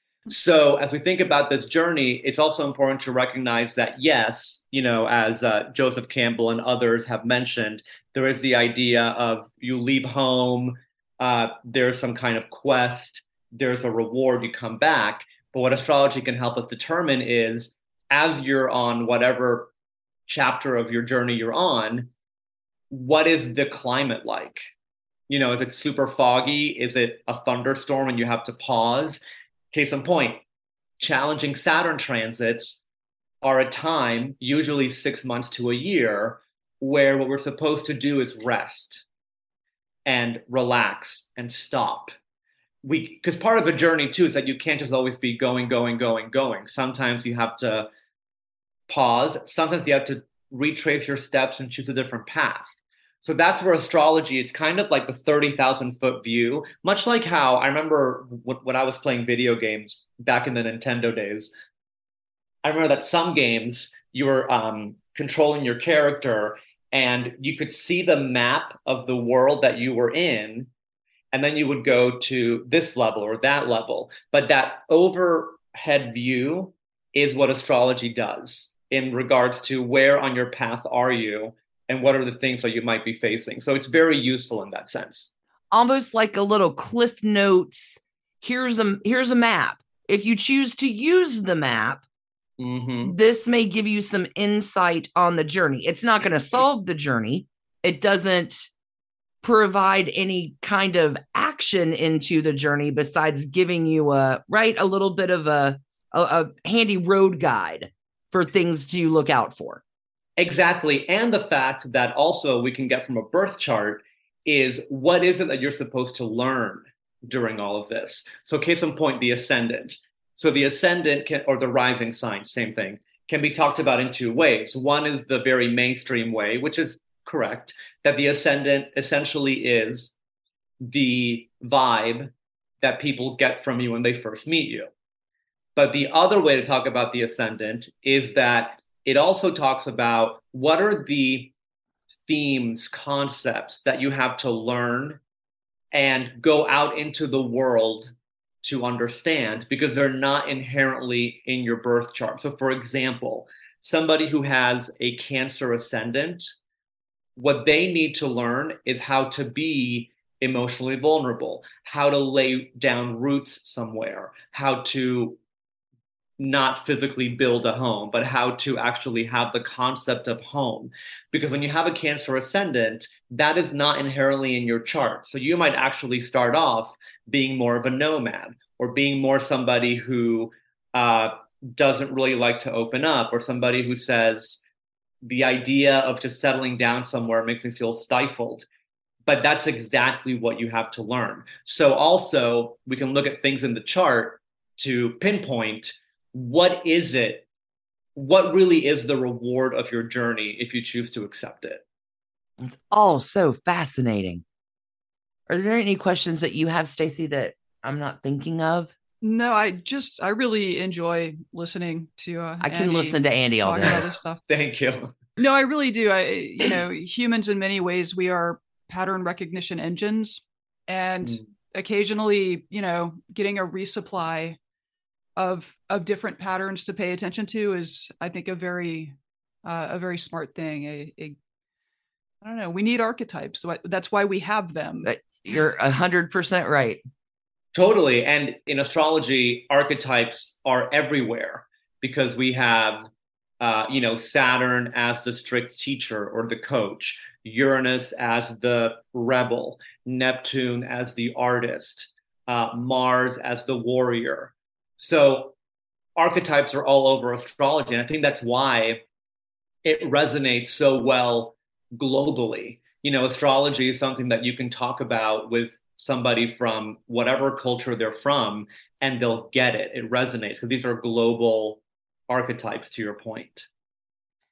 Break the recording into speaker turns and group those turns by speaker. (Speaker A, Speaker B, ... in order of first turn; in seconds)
Speaker A: 0.3-19.7, 20.3-22.1, 22.9-24.6, 25.3-30.4, 31.0-32.8, 33.4-39.0, 40.0-42.1, 42.8-47.9, 48.9-52.7, 53.2-61.5, 62.6-70.7, 71.3-85.3, 92.6-93.1, 110.4-130.1, 130.8-134.9, 135.8-141.5, 142.2-145.2, 145.9-148.1, 148.6-156.5, 157.3-165.4, 166.4-184.6, 185.2-188.7, 189.3-197.4, 198.1-201.8, 214.5-215.1, 237.7-243.1, 243.6-255.5, 256.1-259.0, 259.8-273.7
Speaker B: 85.7-92.0, 93.0-98.7, 99.4-109.8, 202.6-204.4, 205.5-208.9, 212.6-214.1, 235.0-237.0
Speaker C: 209.2-214.4, 215.4-224.6, 225.3-231.4, 232.4-235.1